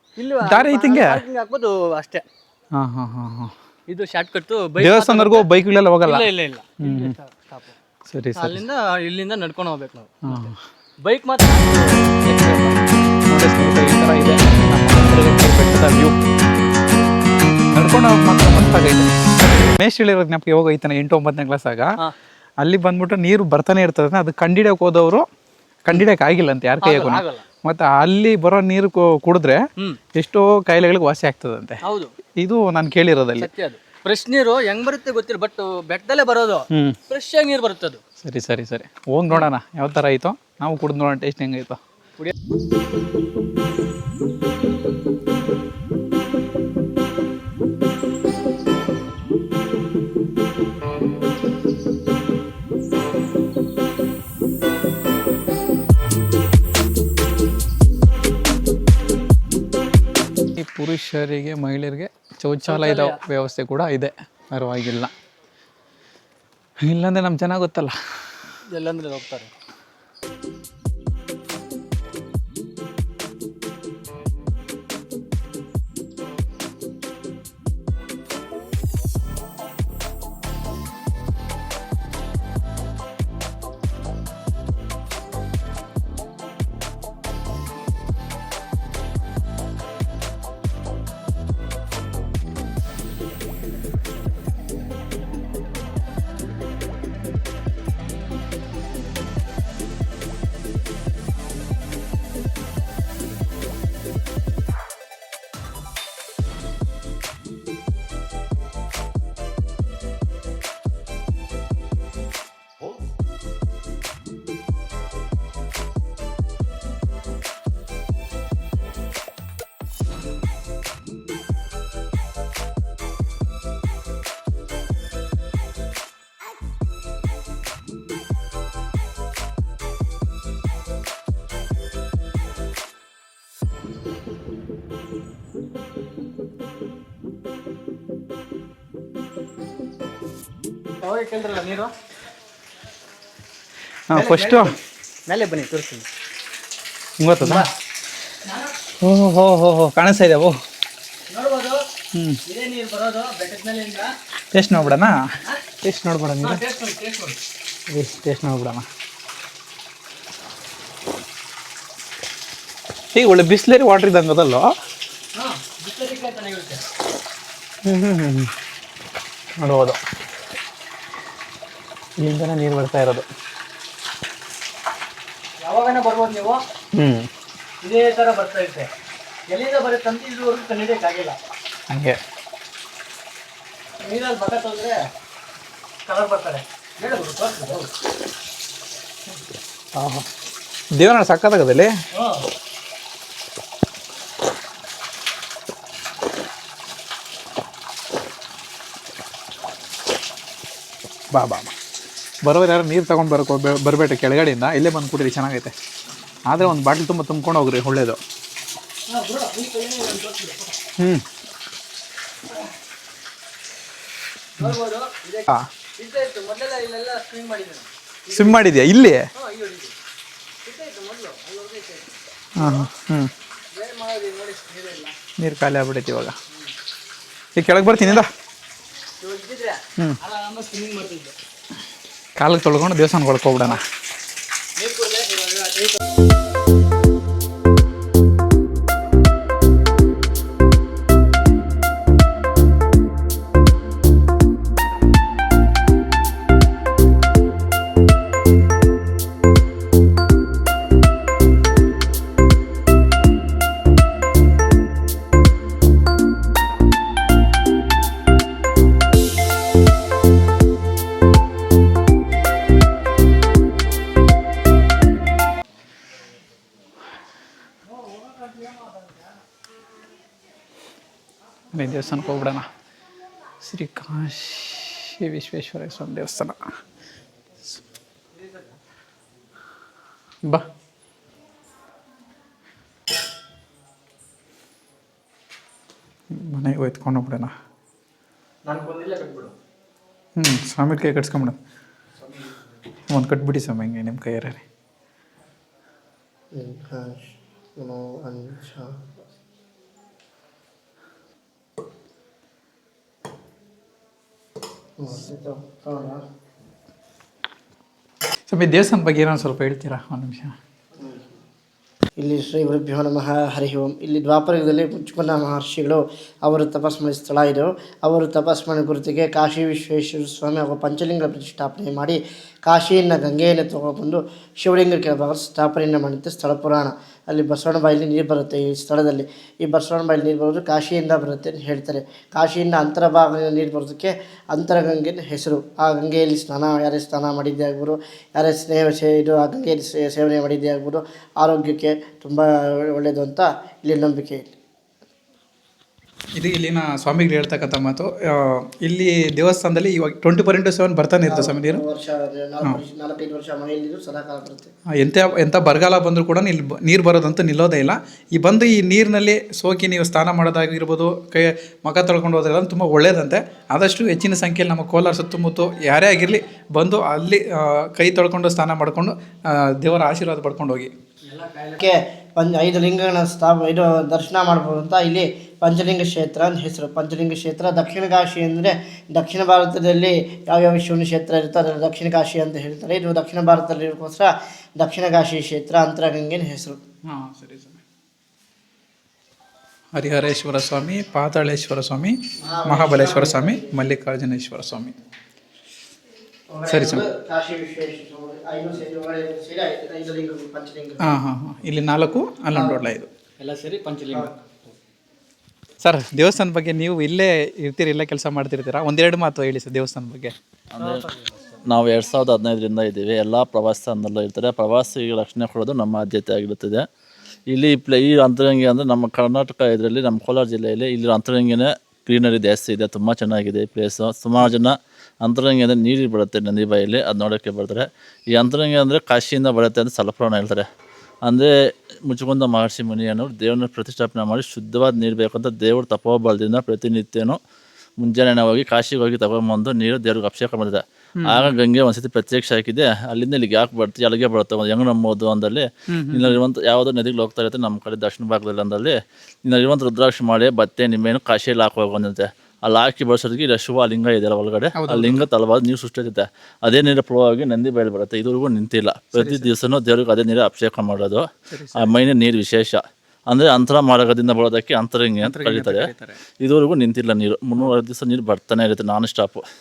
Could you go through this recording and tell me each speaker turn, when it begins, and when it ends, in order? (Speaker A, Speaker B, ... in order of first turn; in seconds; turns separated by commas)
Speaker A: 0.2-2.2, Speaker B: 0.4-1.2, Speaker B: 2.8-3.5, Speaker A: 3.9-5.5, Speaker B: 4.8-6.2, Speaker A: 6.0-7.8, Speaker B: 6.8-7.1, Speaker B: 8.1-8.6, Speaker A: 8.3-10.5, Speaker B: 10.3-10.6, Speaker A: 11.0-13.1, Speaker B: 13.3-16.2, Speaker B: 17.8-21.9, Speaker B: 22.6-25.3, Speaker B: 25.9-29.6, Speaker A: 26.8-27.4, Speaker B: 30.2-31.8, Speaker A: 31.8-32.1, Speaker B: 32.4-33.5, Speaker A: 33.4-38.0, Speaker B: 36.7-37.0, Speaker B: 38.2-41.8, Speaker B: 60.6-65.1, Speaker A: 62.6-63.2, Speaker B: 66.9-67.9, Speaker A: 68.7-69.5, Speaker A: 141.0-141.9, Speaker B: 144.1-144.8, Speaker A: 144.1-146.1, Speaker B: 147.2-147.7, Speaker A: 147.4-147.7, Speaker A: 148.5-148.7, Speaker B: 149.0-150.5, Speaker A: 151.3-151.8, Speaker B: 152.1-152.4, Speaker A: 152.5-154.1, Speaker B: 154.5-155.2, Speaker B: 155.8-156.6, Speaker A: 156.4-157.4, Speaker B: 157.9-158.9, Speaker B: 163.1-164.7, Speaker A: 165.3-166.8, Speaker B: 167.8-168.5, Speaker B: 169.6-170.0, Speaker B: 172.2-173.2, Speaker A: 175.6-176.6, Speaker B: 177.0-177.3, Speaker A: 177.8-178.9, Speaker A: 179.5-181.4, Speaker B: 181.9-182.2, Speaker A: 184.0-185.0, Speaker A: 186.1-187.9, Speaker B: 189.9-190.3, Speaker B: 190.9-191.9, Speaker A: 192.1-192.5, Speaker B: 201.3-201.7, Speaker B: 202.4-205.7, Speaker B: 206.5-208.2, Speaker A: 209.1-210.8, Speaker B: 211.0-211.2, Speaker A: 214.6-218.7, Speaker B: 218.3-219.3, Speaker A: 219.3-219.9, Speaker A: 220.6-222.9, Speaker B: 222.6-223.3, Speaker A: 223.7-225.2, Speaker B: 225.4-226.4, Speaker B: 227.6-228.3, Speaker A: 227.8-228.2, Speaker A: 229.2-231.3, Speaker B: 232.4-233.8, Speaker A: 234.8-236.0, Speaker B: 271.7-272.7, Speaker B: 273.6-276.6, Speaker A: 278.4-278.6, Speaker B: 286.3-287.5, Speaker A: 288.7-289.5, Speaker B: 290.4-291.6, Speaker B: 293.1-294.6, Speaker C: 296.5-297.3, Speaker C: 297.8-298.9, Speaker C: 305.0-306.2, Speaker B: 308.5-310.6, Speaker C: 312.2-344.6, Speaker B: 346.4-351.8, Speaker C: 351.3-354.7, Speaker B: 355.0-370.9, Speaker A: 371.3-371.9, Speaker C: 371.8-386.8, Speaker B: 387.1-387.8, Speaker B: 390.0-395.0, Speaker C: 392.4-393.7, Speaker C: 396.5-401.1, Speaker B: 396.7-397.0, Speaker B: 401.0-403.1, Speaker C: 402.5-402.8, Speaker A: 403.4-404.7, Speaker B: 405.8-410.4, Speaker D: 410.8-411.1, Speaker A: 411.2-411.6, Speaker D: 411.7-416.8, Speaker D: 417.5-430.7, Speaker D: 431.3-431.5, Speaker D: 432.1-437.4, Speaker D: 438.0-461.3, Speaker B: 441.2-441.5, Speaker B: 445.9-446.4, Speaker B: 454.8-455.3, Speaker B: 459.1-459.5, Speaker B: 461.5-461.9, Speaker D: 461.8-465.9, Speaker B: 465.2-466.2, Speaker D: 466.4-469.4